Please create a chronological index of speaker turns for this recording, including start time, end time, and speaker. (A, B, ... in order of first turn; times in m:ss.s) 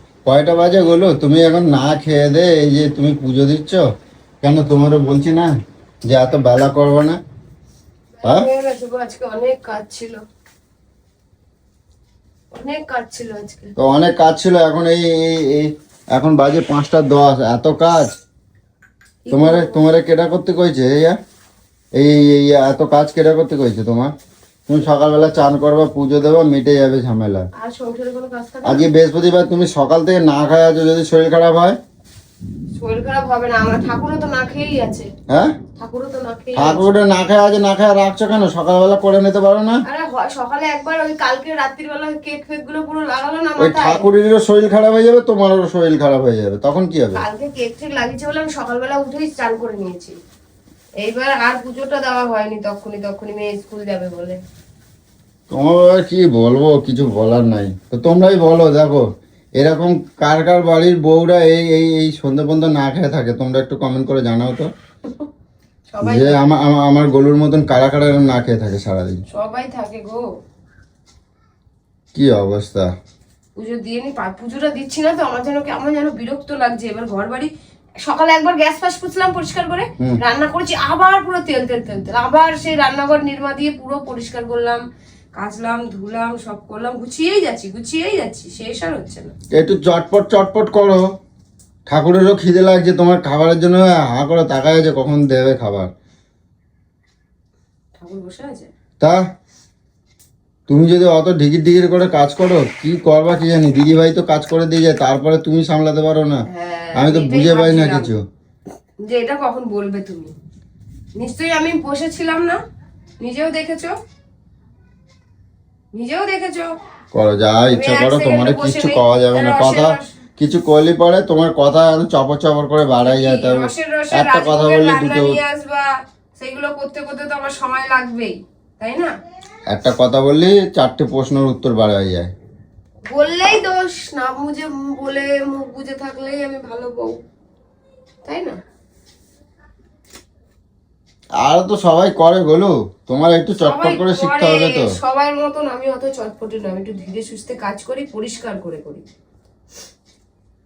0:00.2-0:03.8 A
0:04.4-0:05.6 A
0:06.1-0:07.2 A
0:08.2-0:10.2 B
0:12.5-0:13.7 B
0:13.8-0:18.2 A
0:19.2-0:19.8 B
0:19.3-0:21.2 A
0:22.0-0:24.1 A
0:24.7-0:27.5 A
0:27.6-0:28.8 B
0:28.6-0:31.8 A
0:32.8-0:35.1 B
0:35.3-0:35.6 A
0:35.8-0:36.9 B
0:36.6-0:39.8 A
0:39.9-0:44.1 B
0:43.6-0:47.2 A
0:47.1-0:50.1 B
0:51.0-0:54.4 B
0:55.5-0:59.1 A
0:59.6-1:04.7 A
1:05.9-1:06.5 B
1:06.0-1:09.2 A
1:09.3-1:10.2 B
1:12.1-1:12.9 A
1:13.6-1:17.5 B
1:18.0-1:24.8 B
1:25.3-1:29.3 B
1:29.5-1:31.0 A
1:31.9-1:35.9 A
1:38.0-1:38.7 B
1:40.7-1:46.4 A
1:46.5-1:48.1 B
1:47.0-1:48.2 A
1:49.0-1:50.3 B
1:51.2-1:52.6 B
1:53.2-1:54.0 B
1:55.9-1:56.7 B
1:57.1-2:05.4 A
1:57.7-2:00.1 B
2:03.0-2:09.1 B
2:09.7-2:12.3 A
2:13.1-2:17.2 B
2:18.2-2:18.6 B
2:21.4-2:24.9 A
2:23.6-2:29.0 B